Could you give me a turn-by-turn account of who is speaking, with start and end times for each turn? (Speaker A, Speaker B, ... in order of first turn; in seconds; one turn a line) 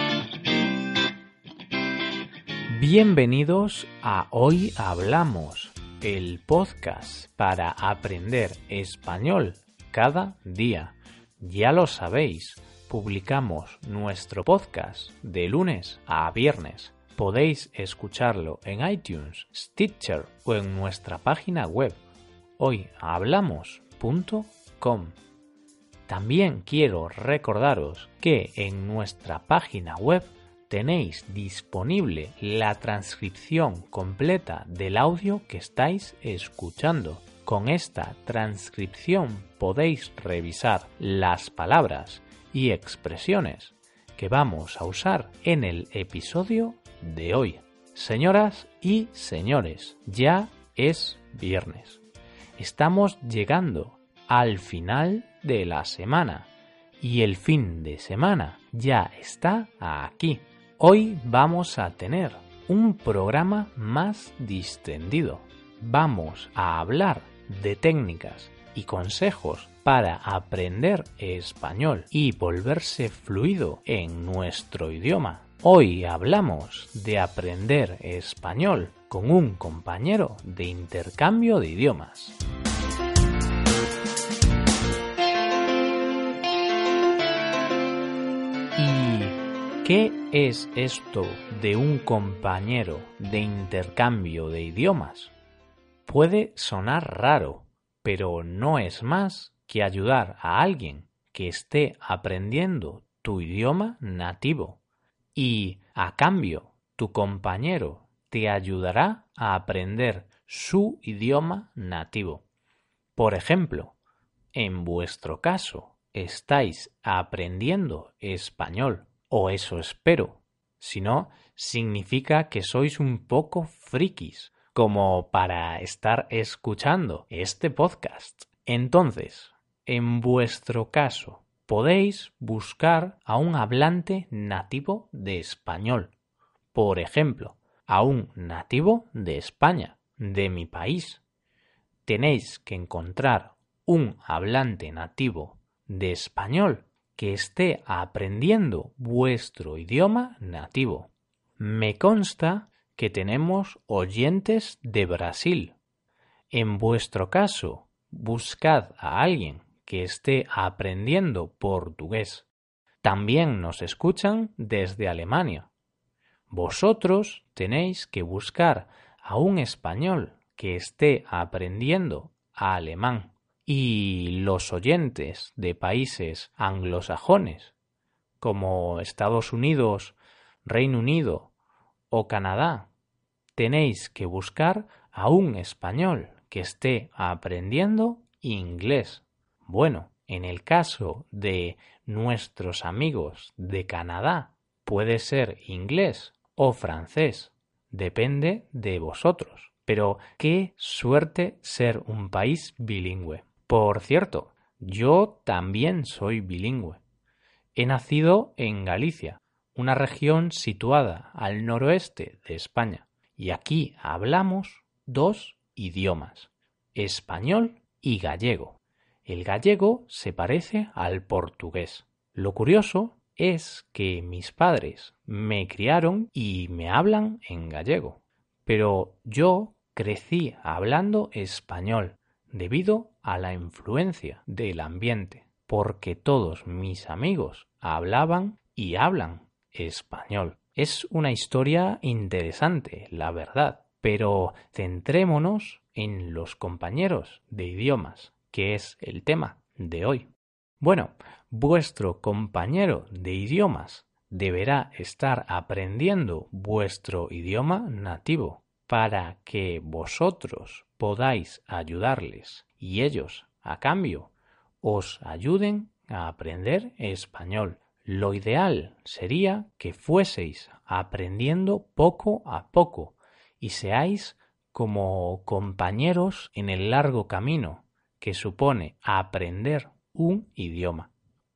Speaker A: 2.7-22.0
Speaker A: 22.6-25.2
Speaker A: 26.1-52.0
Speaker A: 52.6-82.4
Speaker A: 88.8-95.3
Speaker A: 96.1-104.8
Speaker A: 105.3-112.5
Speaker A: 113.2-114.0
Speaker A: 114.5-136.1
Speaker A: 136.7-141.2
Speaker A: 142.1-155.8
Speaker A: 156.5-162.5
Speaker A: 163.0-165.7
Speaker A: 166.5-177.8
Speaker A: 178.4-181.5
Speaker A: 182.1-182.9
Speaker A: 183.6-207.0
Speaker A: 207.8-281.1